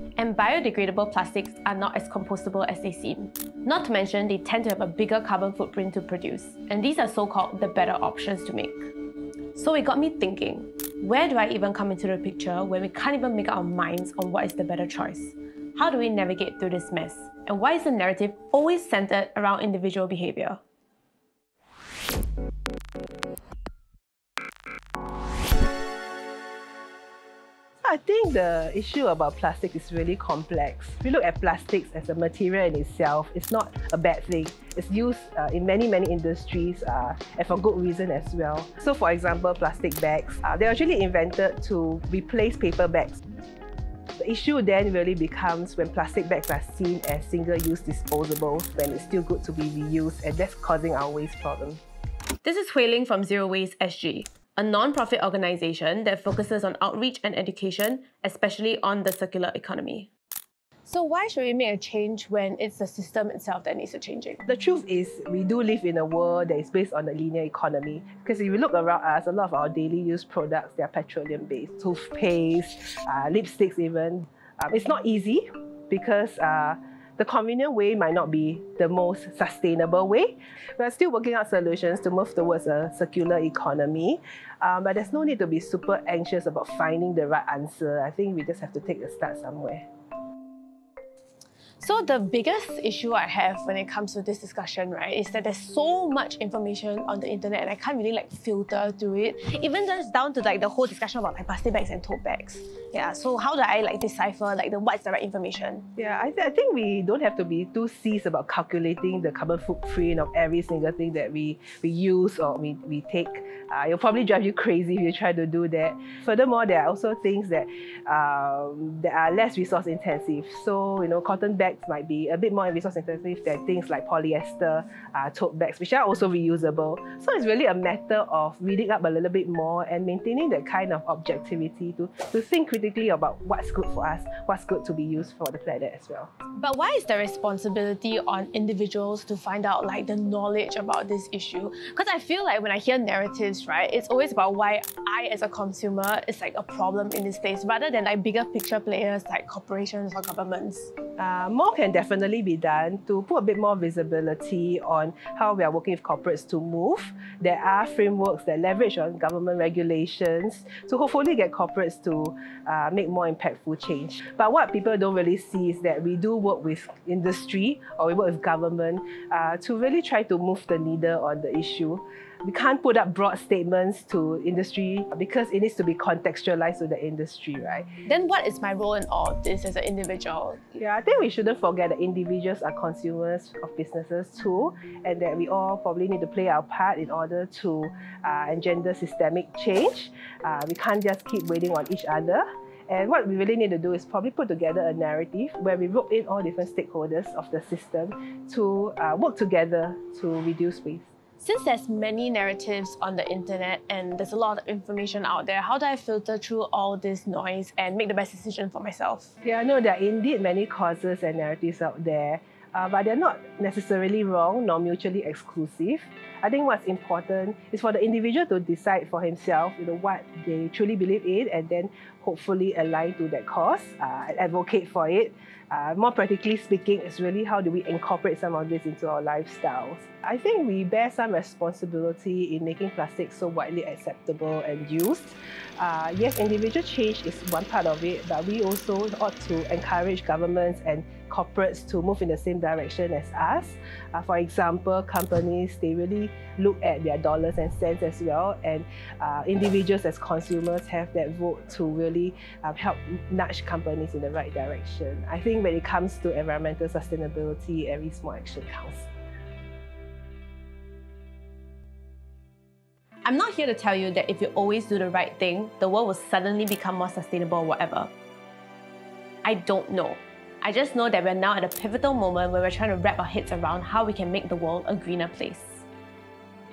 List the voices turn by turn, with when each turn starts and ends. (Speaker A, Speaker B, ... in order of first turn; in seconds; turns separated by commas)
Speaker A: 0.2-8.8, Speaker A: 9.6-20.6, Speaker B: 27.8-43.2, Speaker B: 44.2-51.8, Speaker A: 52.4-60.1, Speaker A: 60.9-64.4, Speaker B: 64.5-89.9, Speaker A: 91.8-105.9, Speaker B: 106.0-136.3, Speaker A: 136.6-150.9, Speaker B: 151.2-177.9, Speaker A: 178.1-180.8, Speaker B: 180.8-201.1, Speaker A: 201.4-209.3, Speaker B: 209.4-259.1, Speaker A: 263.2-268.1, Speaker A: 269.4-275.9